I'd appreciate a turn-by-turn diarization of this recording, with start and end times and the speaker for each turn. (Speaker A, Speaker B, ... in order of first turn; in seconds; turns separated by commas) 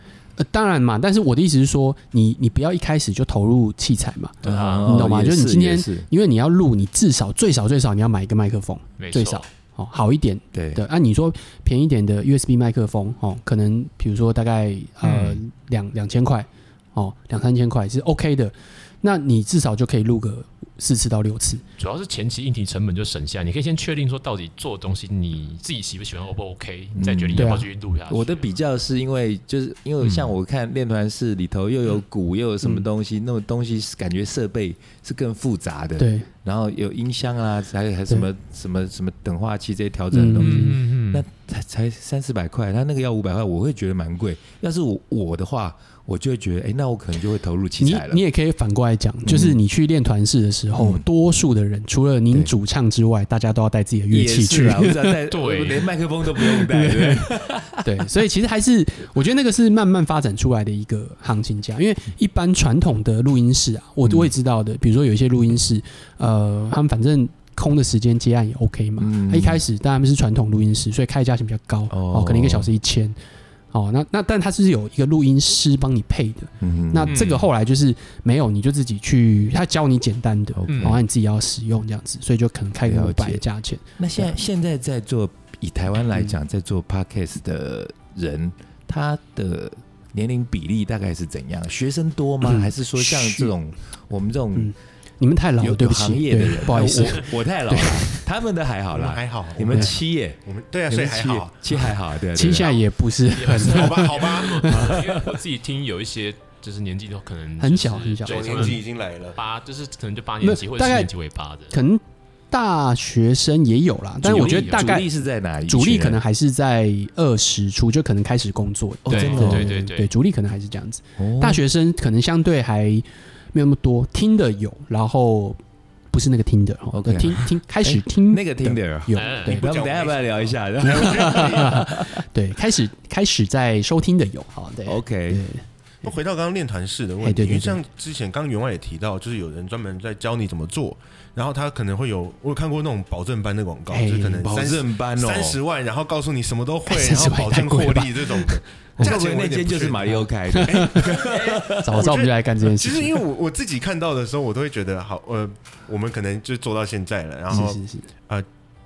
Speaker A: 0.4-21.6, Speaker B: 4.4-5.0, Speaker C: 4.4-6.1, Speaker B: 9.0-9.4, Speaker C: 10.5-10.8, Speaker B: 15.0-15.4, Speaker B: 21.8-28.4, Speaker C: 26.9-48.2, Speaker A: 27.4-27.6, Speaker B: 30.0-30.3, Speaker A: 36.0-36.3, Speaker A: 40.1-40.8, Speaker B: 40.4-41.2, Speaker A: 47.8-55.2, Speaker C: 49.2-49.6, Speaker C: 50.8-51.0, Speaker C: 54.1-57.9, Speaker B: 55.3-55.9, Speaker A: 56.4-73.2, Speaker C: 64.0-64.3, Speaker C: 69.0-69.6, Speaker C: 71.9-72.7, Speaker A: 73.7-84.3, Speaker C: 76.6-77.3, Speaker B: 77.1-77.5, Speaker C: 80.5-81.0, Speaker B: 80.7-81.0, Speaker C: 82.8-83.4, Speaker C: 84.0-94.7, Speaker A: 92.4-93.5, Speaker A: 94.5-98.2, Speaker C: 95.6-102.7, Speaker D: 98.9-101.8, Speaker A: 102.3-105.0, Speaker B: 103.3-111.7, Speaker D: 103.5-104.7, Speaker A: 107.6-108.8, Speaker D: 108.2-109.4, Speaker A: 110.4-111.1, Speaker A: 111.7-115.1, Speaker C: 114.2-116.2, Speaker B: 114.2-114.9, Speaker A: 115.7-125.6, Speaker C: 119.0-119.8, Speaker B: 119.1-120.1, Speaker C: 121.2-121.6, Speaker A: 126.1-129.6, Speaker C: 126.9-132.2, Speaker B: 129.1-129.6, Speaker D: 129.4-131.8, Speaker A: 130.8-136.1, Speaker C: 134.8-135.4, Speaker D: 136.0-158.4, Speaker A: 137.2-137.8, Speaker A: 143.9-144.5, Speaker C: 144.4-145.6, Speaker A: 146.9-149.1, Speaker C: 149.0-152.0, Speaker A: 150.5-151.2, Speaker A: 151.8-153.2, Speaker A: 157.5-158.1